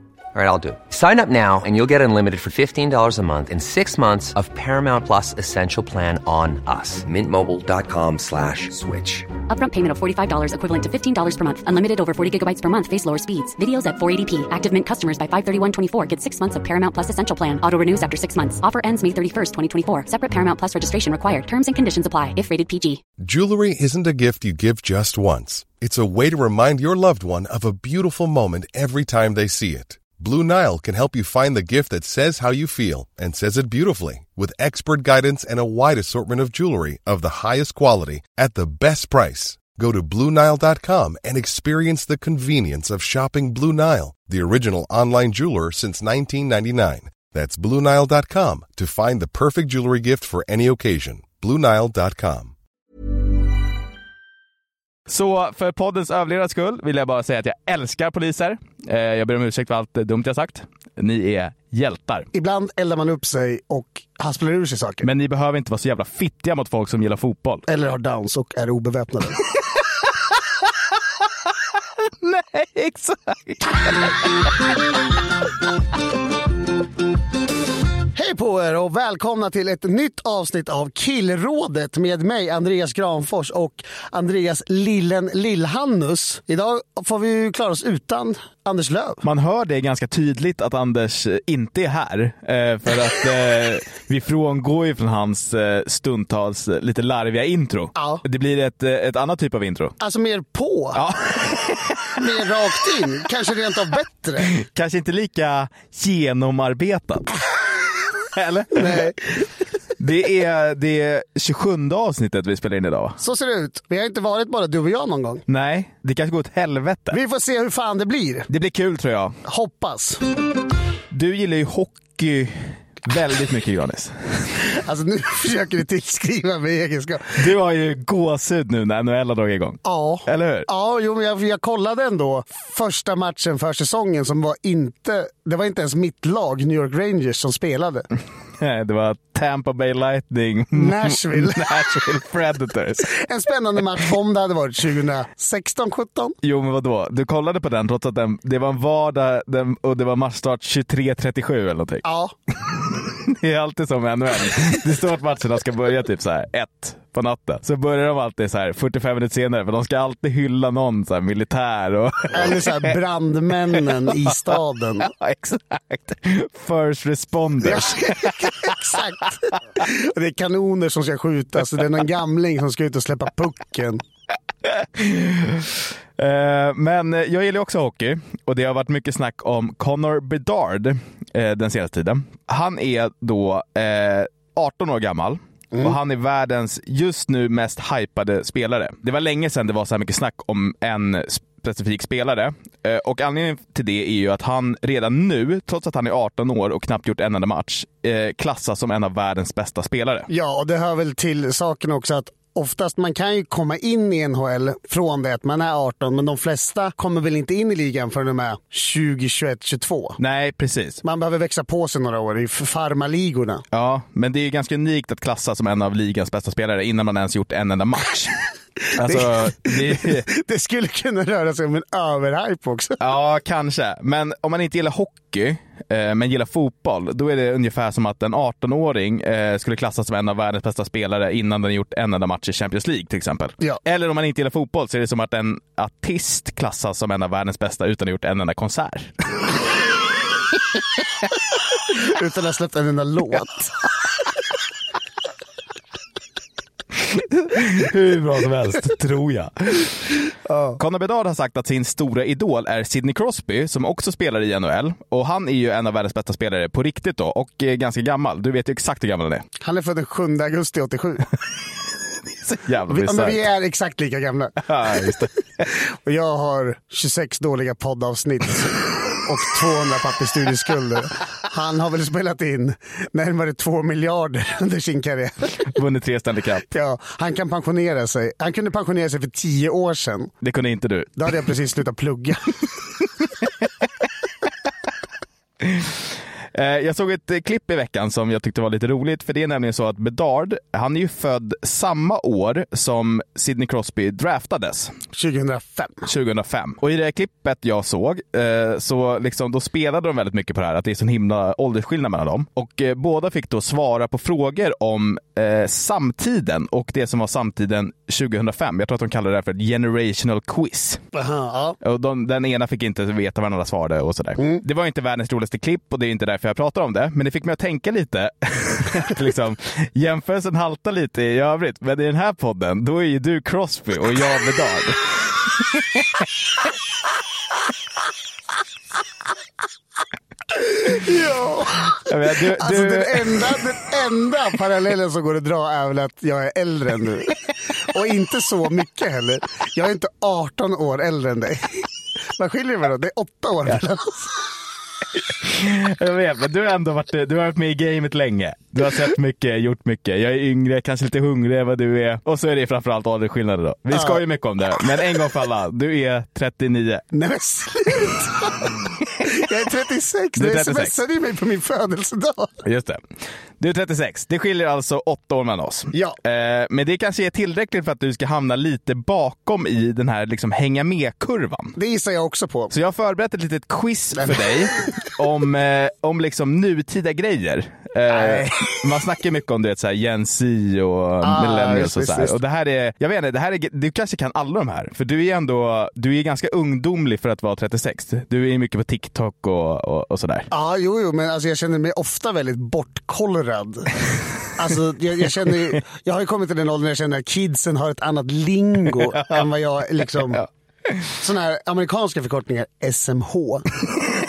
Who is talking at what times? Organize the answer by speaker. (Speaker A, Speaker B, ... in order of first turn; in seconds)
Speaker A: 0.3-9.3
Speaker B: 9.5-23.0
Speaker C: 23.2-52.5
Speaker D: 55.1-62.3, 65.0-67.6, 72.2-74.4, 89.2-100.0, 100.9-102.1, 104.5-107.4, 108.3-109.1, 110.0-113.2, 115.5-117.2, 118.5-119.4, 121.1-124.1, 127.3-130.7, 138.6-143.1, 146.4-152.0, 152.9-162.9, 164.0-164.3, 165.0-168.8, 174.7-200.3, 210.2-211.0, 213.7-218.4, 218.9-220.2, 223.0-239.1, 247.0-250.1, 250.8-259.4, 262.4-263.4, 264.6-265.6, 275.6-276.7, 280.4-281.2, 285.6-294.9, 296.1-311.0, 311.8-326.2, 332.0-333.6, 345.3-357.0, 360.4-361.0, 362.6-363.0, 363.6-371.8, 372.7-390.5, 399.2-399.4, 400.1-401.0
Speaker E: 62.3-65.1, 67.7-69.4, 78.1-89.2, 98.0-98.2, 100.0-101.0, 102.2-104.5, 108.7-109.2, 113.2-115.4, 117.1-118.5, 119.4-120.2, 124.8-127.4, 129.8-138.1, 140.7-142.0, 143.0-146.3, 152.0-152.3, 162.3-165.1, 167.6-174.0, 200.3-210.2, 211.0-213.6, 219.0-223.0, 241.9-243.7, 250.4-250.8, 259.6-261.2, 262.9-265.1, 265.7-275.7, 276.7-280.3, 281.1-282.5, 295.1-296.1, 311.1-311.8, 330.6-337.4, 337.9-344.3, 353.9-354.2, 357.1-362.6, 365.9-366.2, 371.8-372.7, 374.2-374.4, 378.1-378.8, 381.2-382.4, 390.5-393.9, 394.6-400.4, 401.2-403.7